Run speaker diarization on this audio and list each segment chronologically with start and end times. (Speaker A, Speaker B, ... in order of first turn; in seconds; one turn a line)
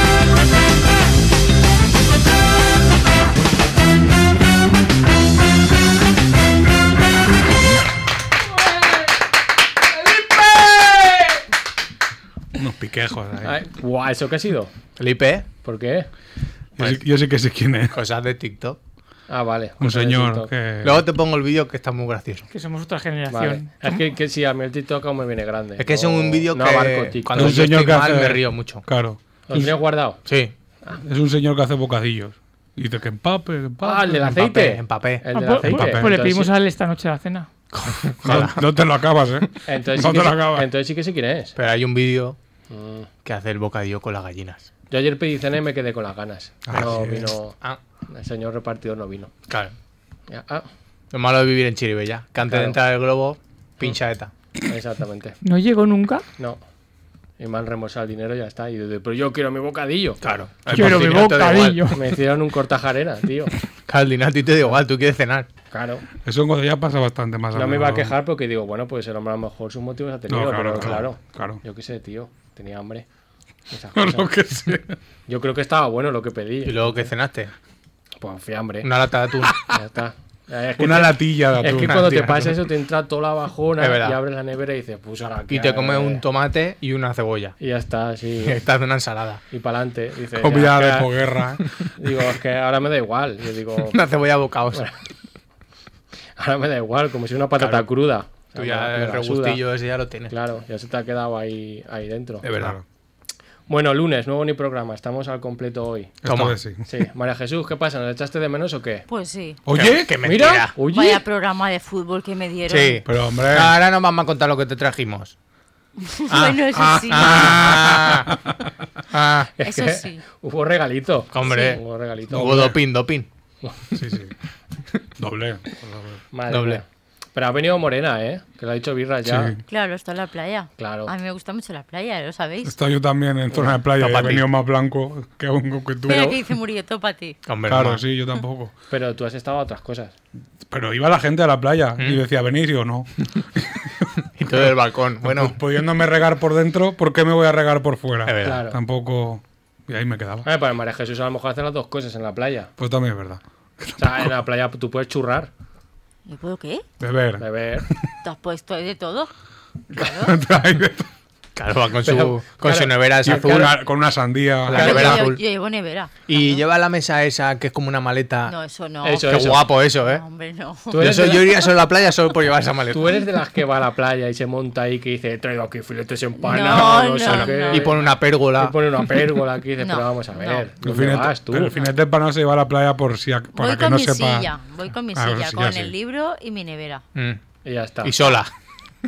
Speaker A: 12.6-13.6
Speaker B: 13.4-14.7
Speaker C: 15.0-15.5
Speaker B: 15.6-16.1
Speaker A: 16.8-18.0
Speaker C: 17.9-18.8
Speaker B: 19.3-20.5
Speaker A: 19.8-21.1
Speaker C: 20.8-22.5
Speaker D: 22.5-24.0
Speaker B: 23.3-27.7
Speaker C: 25.8-28.9
Speaker A: 27.3-29.2
Speaker B: 29.5-30.2
Speaker C: 30.2-30.5
Speaker A: 31.0-34.4
Speaker B: 33.8-36.5
Speaker C: 34.3-35.2
Speaker D: 35.3-37.5
Speaker A: 35.6-36.1
Speaker C: 37.7-38.6
Speaker A: 38.2-40.7
Speaker B: 39.7-41.5
Speaker C: 41.6-42.4
Speaker B: 42.7-43.1
Speaker C: 43.2-44.7
Speaker B: 44.9-47.6
Speaker A: 46.7-47.3
Speaker C: 46.7-47.8
Speaker B: 48.1-49.3
Speaker C: 49.5-49.7
Speaker B: 50.3-50.7
Speaker C: 51.1-54.3
Speaker B: 52.5-52.8
Speaker B: 54.7-55.4
Speaker D: 55.4-56.2
Speaker B: 57.4-60.2
Speaker C: 60.2-62.0
Speaker D: 60.7-62.1
Speaker A: 60.7-61.2
Speaker B: 61.9-63.5
Speaker C: 63.9-65.5
Speaker B: 65.7-66.1
Speaker A: 66.2-68.2
Speaker B: 67.5-73.1
Speaker A: 70.3-71.6
Speaker B: 73.7-74.3
Speaker A: 74.0-75.0
Speaker B: 75.3-77.1
Speaker C: 76.7-77.5
Speaker B: 78.2-78.9
Speaker C: 78.8-79.7
Speaker B: 79.5-86.2
Speaker A: 80.8-82.3
Speaker C: 81.7-82.5
Speaker C: 83.8-84.2
Speaker C: 85.5-87.6
Speaker B: 87.6-88.6
Speaker C: 88.4-89.4
Speaker B: 89.5-91.1
Speaker A: 90.4-91.6
Speaker B: 92.0-94.0
Speaker C: 93.9-94.8
Speaker B: 96.4-99.6
Speaker C: 97.6-97.9
Speaker C: 98.5-100.3
Speaker B: 100.3-102.4
Speaker C: 102.4-102.8
Speaker A: 102.5-102.8
Speaker B: 103.7-106.1
Speaker A: 106.2-106.9
Speaker C: 106.3-106.6
Speaker B: 106.8-109.1
Speaker E: 109.1-109.6
Speaker A: 109.7-110.2
Speaker C: 109.7-110.8
Speaker B: 110.2-111.2
Speaker E: 110.9-113.0
Speaker C: 112.7-115.3
Speaker A: 113.1-113.7
Speaker E: 116.0-117.6
Speaker C: 116.3-118.4
Speaker A: 116.7-118.7
Speaker C: 119.1-119.5
Speaker B: 119.6-122.7
Speaker E: 119.6-120.2
Speaker C: 121.3-123.3
Speaker A: 122.3-122.8
Speaker A: 123.9-124.3
Speaker A: 125.2-126.2
Speaker B: 126.3-129.6
Speaker C: 126.5-126.8
Speaker A: 129.2-129.6
Speaker E: 129.7-132.7
Speaker B: 130.8-131.1
Speaker A: 132.6-136.4
Speaker C: 134.0-134.4
Speaker E: 136.1-137.4
Speaker C: 137.5-138.0
Speaker A: 137.7-138.7
Speaker B: 138.9-140.1
Speaker A: 140.7-150.5
Speaker C: 142.0-142.2
Speaker C: 144.4-145.6
Speaker C: 148.2-148.6
Speaker B: 148.4-148.8
Speaker B: 150.4-152.7
Speaker A: 152.8-154.3
Speaker B: 154.0-155.5
Speaker E: 156.3-156.8
Speaker A: 157.0-158.1
Speaker B: 157.4-157.9
Speaker E: 158.2-159.3
Speaker E: 159.9-160.4
Speaker A: 160.0-161.1
Speaker C: 161.6-163.8
Speaker B: 162.0-163.8
Speaker A: 163.2-165.2
Speaker C: 164.7-165.4
Speaker E: 164.7-166.6
Speaker B: 164.8-165.2
Speaker C: 166.3-168.5
Speaker E: 168.5-171.2
Speaker B: 169.0-169.7
Speaker C: 169.2-170.2
Speaker B: 170.9-171.5
Speaker C: 171.0-173.2
Speaker B: 172.9-181.7
Speaker E: 176.4-178.1
Speaker C: 177.3-178.8
Speaker E: 179.8-180.7
Speaker A: 180.8-184.5
Speaker E: 183.6-187.0
Speaker A: 185.1-185.9
Speaker C: 187.2-187.4
Speaker B: 187.7-188.3
Speaker C: 188.0-188.5